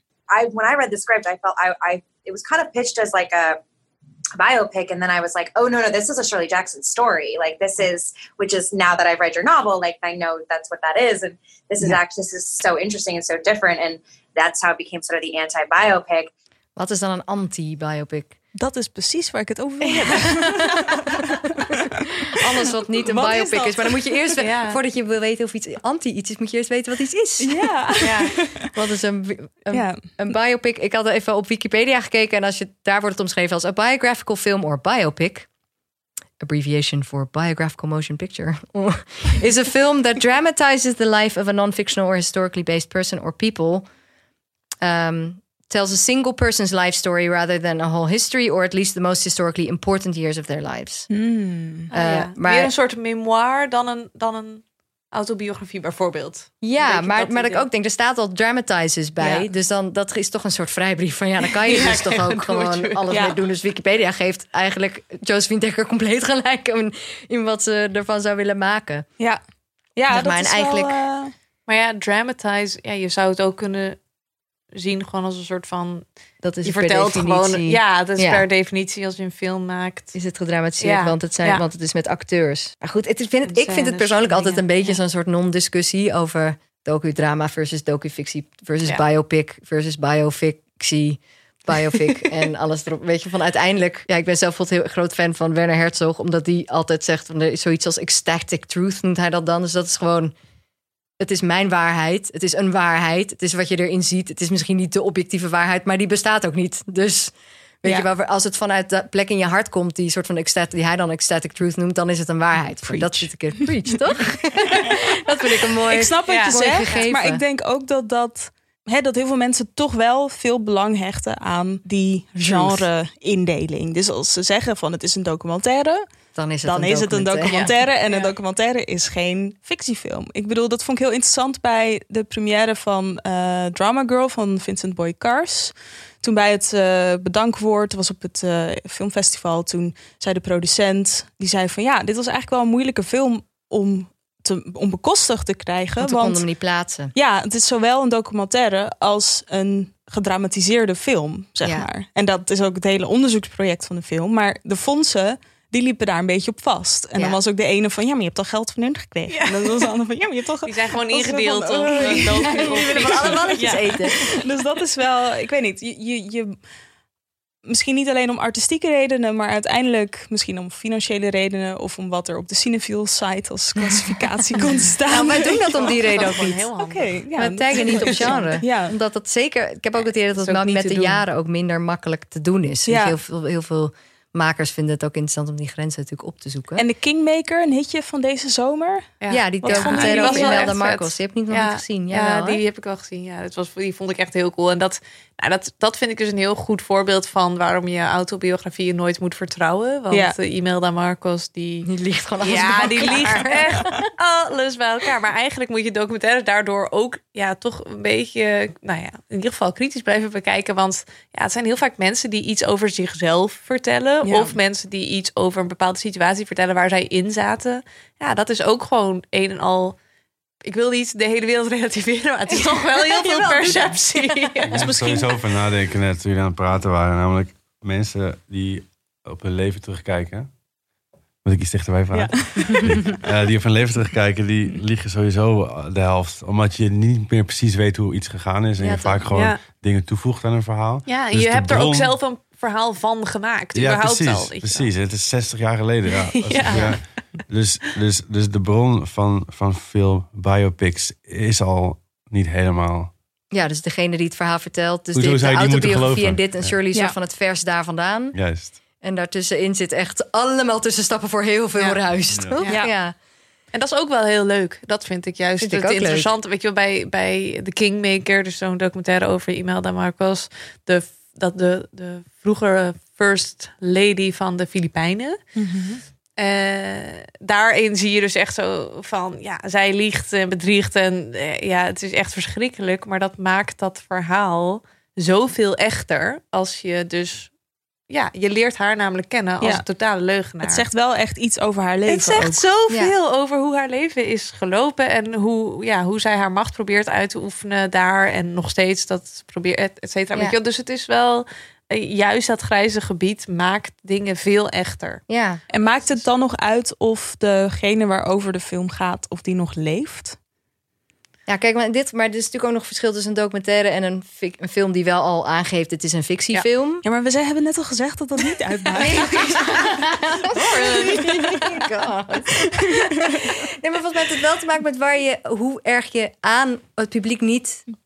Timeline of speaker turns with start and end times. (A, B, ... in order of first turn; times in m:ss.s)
0:00.3-0:03.6 A
0:04.4-0:16.3 A
0:16.8-0:18.4 B
0:18.6-0:20.8 C
0:19.8-0:21.0 B
0:22.3-0:28.0 B
0:23.0-0:24.1 C
0:24.4-0:24.8 D
0:27.4-0:28.5 C
0:28.0-0:28.3 D
0:28.7-0:35.5 B
0:29.7-0:30.0 C
0:36.4-0:43.9 B
0:44.8-0:51.1 B
0:51.1-0:51.9 C
0:51.9-0:57.6 D
0:51.9-0:52.7 B
0:56.6-1:09.0 B
1:01.7-1:03.0 D
1:03.1-1:03.4 C
1:10.0-1:11.3 C
1:10.1-1:11.0 B
1:11.7-1:14.0 D
1:14.7-1:16.0 D
1:16.4-1:18.4 B
1:16.6-1:20.1 D
1:20.1-1:40.3 B
1:20.8-1:21.6 D
1:23.5-1:25.0 D
1:41.2-1:57.4 B
1:52.8-1:53.7 C
1:55.9-2:06.0 C
1:56.3-1:57.1 D
2:02.5-2:02.8 B
2:06.3-2:07.7 B
2:06.6-2:26.4 C
2:07.5-2:08.3 D
2:26.0-2:27.1 B
2:27.1-2:46.5 C
2:31.6-2:31.9 B
2:39.3-2:39.9 D
2:40.6-2:43.9 D
2:42.0-2:44.4 B
2:47.6-2:56.0 C
2:55.1-2:57.2 D
2:55.1-2:56.7 B
2:56.8-2:58.9 C
2:57.3-3:06.8 B
2:57.7-2:58.5 D
3:00.4-3:01.2 D
3:02.9-3:03.2 C
3:06.8-3:09.1 C
3:09.2-3:21.9 D
3:09.3-3:12.6 B
3:09.6-3:10.7 C
3:21.8-3:24.0 B
3:22.4-3:40.0 D
3:22.5-3:23.5 C
3:34.2-3:34.5 C
3:40.6-3:44.9 D
3:42.5-3:44.6 B
3:44.7-3:50.5 E
3:44.7-3:45.3 C
3:51.4-4:02.2 E
3:52.1-3:53.0 C
3:58.8-3:59.2 B
3:59.3-3:59.6 D
4:01.0-4:04.9 D
4:03.7-4:13.1 E
4:06.3-4:07.0 D
4:06.7-4:07.0 B
4:13.5-4:18.4 B
4:15.1-4:16.8 E
4:18.3-4:18.8 E
4:18.9-4:23.1 B
4:22.3-4:22.6 E
4:23.7-4:35.5 D
4:25.6-4:26.3 B
4:35.6-4:36.0 C
4:36.4-4:47.5 D
4:48.1-4:50.9 D
4:50.6-4:52.5 C
4:52.1-5:06.2 D
4:52.4-4:53.1 B
5:05.3-5:05.6 B
5:05.8-5:10.4 C
5:11.5-5:17.0 B
5:17.0-5:19.7 C
5:19.0-5:19.6 D
5:19.1-5:27.8 B
5:20.5-5:21.3 D
5:20.6-5:21.8 C
5:22.6-5:23.4 C